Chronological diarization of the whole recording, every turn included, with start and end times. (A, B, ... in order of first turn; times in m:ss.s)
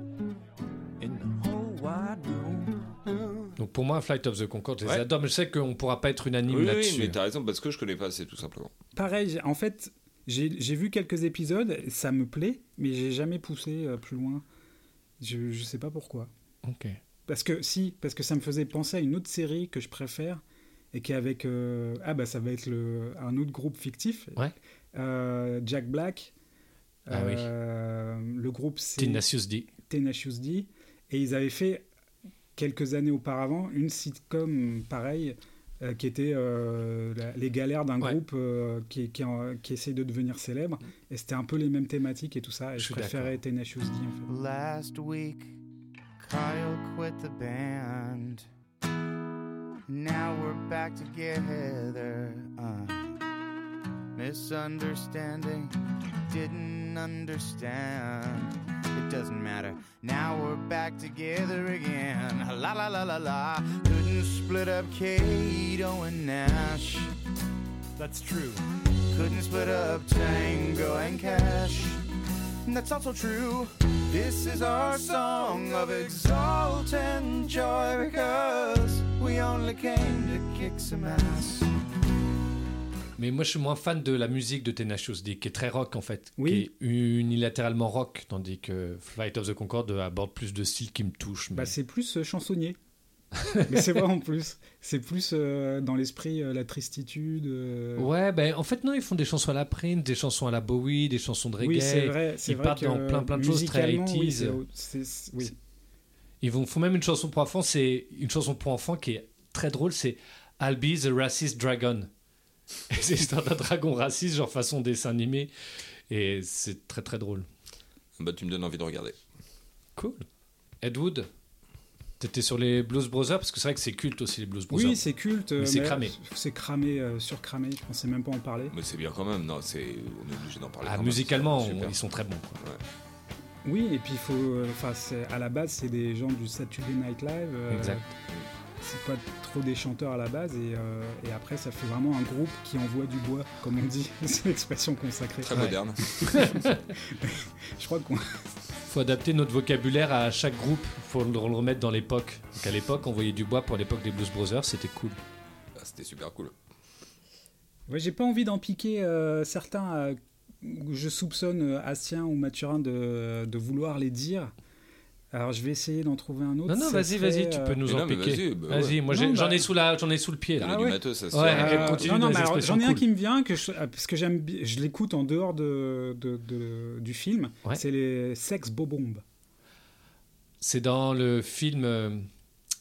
0:01.0-0:01.3 A
0:01.4-0:03.5 B
0:03.6-0:07.2 A
0:06.5-0:08.7 C
0:09.0-0:14.4 D
0:15.2-0:16.3 D
0:16.6-0:17.0 A
0:17.3-0:20.4 D
0:20.9-0:24.4 D
0:25.0-0:26.3 D
0:27.1-0:29.2 D
0:27.1-0:27.5 A
0:29.0-0:29.7 A
0:29.8-0:31.9 D
0:32.6-0:44.3 D
0:42.8-0:43.4 A
0:44.3-0:45.6 E
0:46.2-0:48.4 E
0:49.9-0:53.1 E
0:54.2-0:55.8 E
0:56.3-1:07.1 E
1:08.0-1:12.0 E
1:12.6-1:21.7 E
1:23.2-1:31.7 A
1:26.4-1:26.7 D
1:31.5-1:32.8 D
1:33.5-1:34.0 A
1:33.7-1:38.1 D
1:38.0-1:44.6 A
1:41.6-1:45.5 D
1:46.4-1:52.1 A
1:52.9-1:55.5 A
1:56.1-1:57.5 A
1:58.2-1:59.2 C
2:00.0-2:00.2 A
2:00.8-2:01.3 A
2:02.2-2:05.0 A
2:04.7-2:08.7 D
2:05.6-2:06.1 A
2:08.7-2:12.0 C
2:10.8-2:12.6 A
2:13.6-2:18.0 D
2:17.7-2:18.0 A
2:18.8-2:25.5 D
2:25.4-2:26.0 C
2:25.5-2:26.8 A
2:27.1-2:28.2 D
2:28.9-2:35.2 A
2:35.8-2:36.5 C
2:37.9-2:44.5 D
2:45.3-2:47.8 D
2:46.7-2:53.0 A
2:47.9-2:49.0 C
2:49.1-2:49.7 D
2:50.6-2:52.5 C
2:50.6-2:59.2 D
3:00.6-3:02.3 A